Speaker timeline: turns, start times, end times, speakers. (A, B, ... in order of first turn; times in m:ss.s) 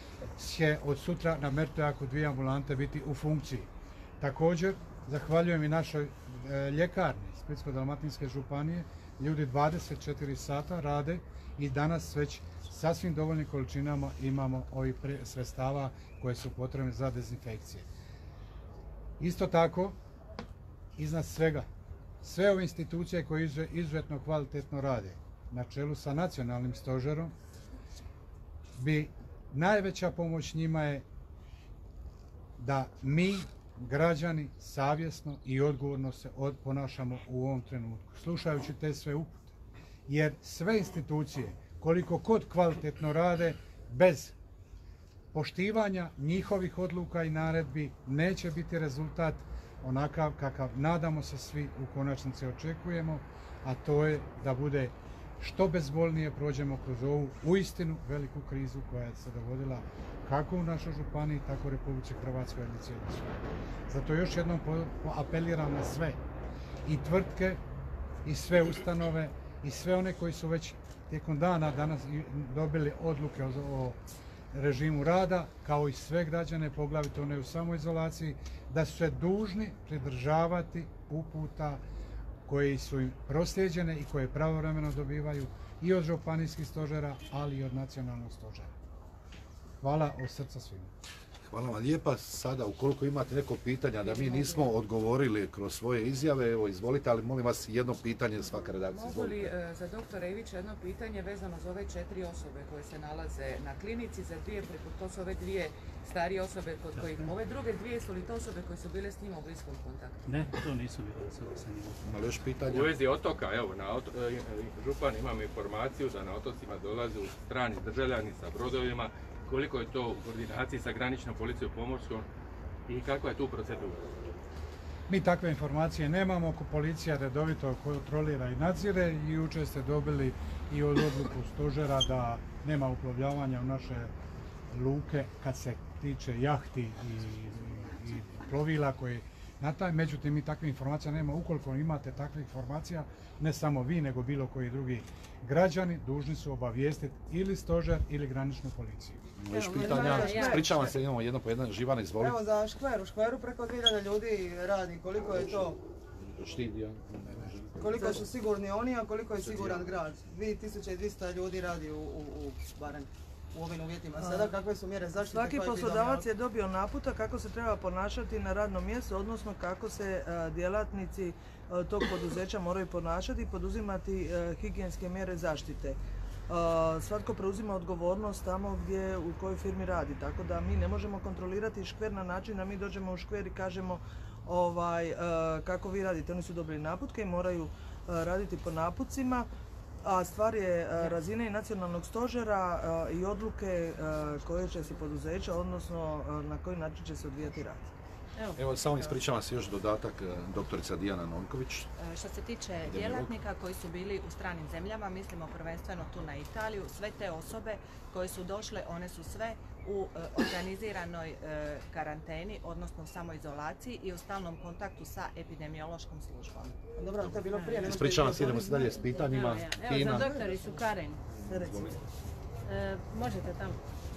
0:00.4-0:03.7 A
0:04.2-0:17.9 A
0:19.2-0:20.0 A
0:21.0-0:21.7 A
0:22.2-0:27.3 A
0:28.8-0:31.0 A
0:32.6-0:39.5 A
0:40.1-0:44.3 A
0:45.3-1:06.2 A
1:06.9-1:07.6 A
1:08.2-1:14.0 A
1:14.5-1:21.8 A
1:22.5-1:28.7 A
1:29.8-1:30.9 A
1:31.5-1:39.5 B
1:34.0-1:34.7 C
1:38.9-1:50.2 D
1:47.0-1:47.3 E
1:50.3-1:52.3 E
1:52.0-1:53.0 B
1:52.7-2:02.3 F
2:02.9-2:04.0 F
2:05.1-2:14.1 A
2:14.7-2:29.2 A
2:29.4-2:32.4 B
2:29.6-2:30.7 G
2:29.7-2:30.9 C
2:32.2-2:35.8 H
2:35.3-2:35.7 B
2:36.3-2:37.8 B
2:37.8-2:46.2 H
2:37.9-2:38.2 G
2:39.5-2:39.8 B
2:44.2-2:44.6 G
2:45.2-3:09.5 G
3:10.0-3:17.9 G
3:18.4-3:19.1 C
3:18.6-3:21.9 B
3:22.0-3:36.8 I
3:22.9-3:23.3 B
3:37.0-3:38.7 H
3:37.5-3:41.2 C
3:37.8-3:40.3 B
3:40.1-3:40.6 G
3:41.3-3:42.0 B
3:41.5-3:42.0 G
3:42.6-3:43.8 C